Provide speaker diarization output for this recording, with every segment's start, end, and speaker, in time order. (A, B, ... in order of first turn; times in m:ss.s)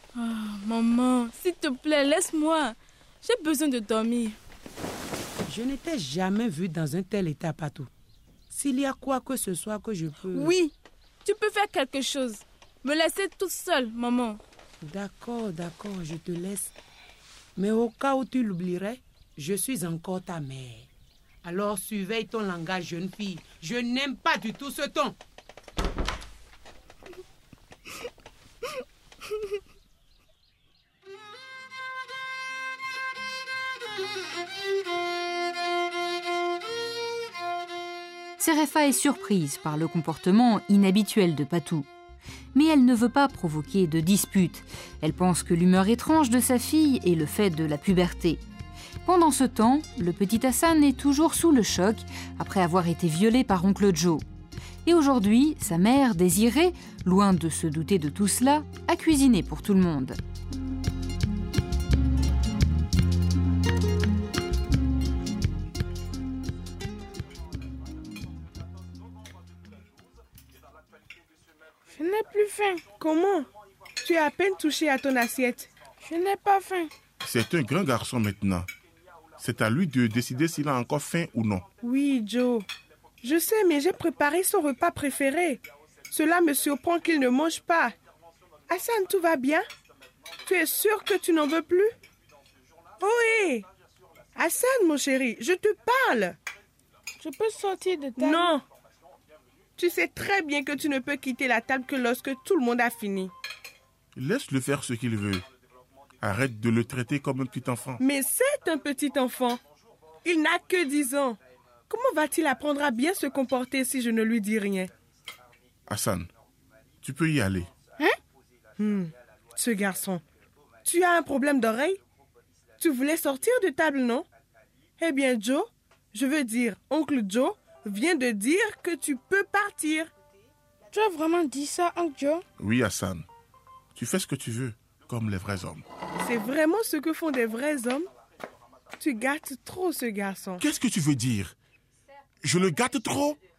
0:00.2-0:04.4 A
0:05.5-0:07.9 B
0:08.5-0:10.5 B
0:10.3-0:10.7 A
0:11.2-0:14.4 A
0:14.9-0:16.7 B
0:17.6-0:20.9 B
0:21.4-0:25.1 B
0:38.4-0:41.9 C
0:42.5-0:48.4 C
0:49.0-0:54.2 C
0:54.8-1:00.2 C
1:11.9-1:12.8 D
1:13.0-1:13.5 E
1:14.0-1:15.7 E
1:16.0-1:16.9 D
1:17.2-1:18.7 F
1:19.4-1:21.7 F
1:21.8-1:22.7 E
1:23.2-1:28.0 E
1:28.7-1:29.6 E
1:30.4-1:31.9 E
1:33.0-1:33.7 E
1:34.4-1:36.4 E
1:37.2-1:38.5 D
1:38.2-1:38.6 E
1:39.8-1:43.3 E
1:44.2-1:45.5 F
1:46.2-1:48.0 F
1:48.0-1:49.6 E
1:50.2-1:51.4 E
1:51.9-1:54.9 E
1:55.9-1:56.3 F
1:57.0-1:57.7 F
1:58.8-2:00.2 E
2:00.8-2:02.0 E
2:02.8-2:04.2 E
2:05.0-2:10.1 E
2:10.9-2:12.4 D
2:12.6-2:13.2 F
2:14.0-2:15.8 F
2:16.2-2:18.1 E
2:19.0-2:20.6 E
2:20.6-2:21.5 F
2:22.4-2:23.4 F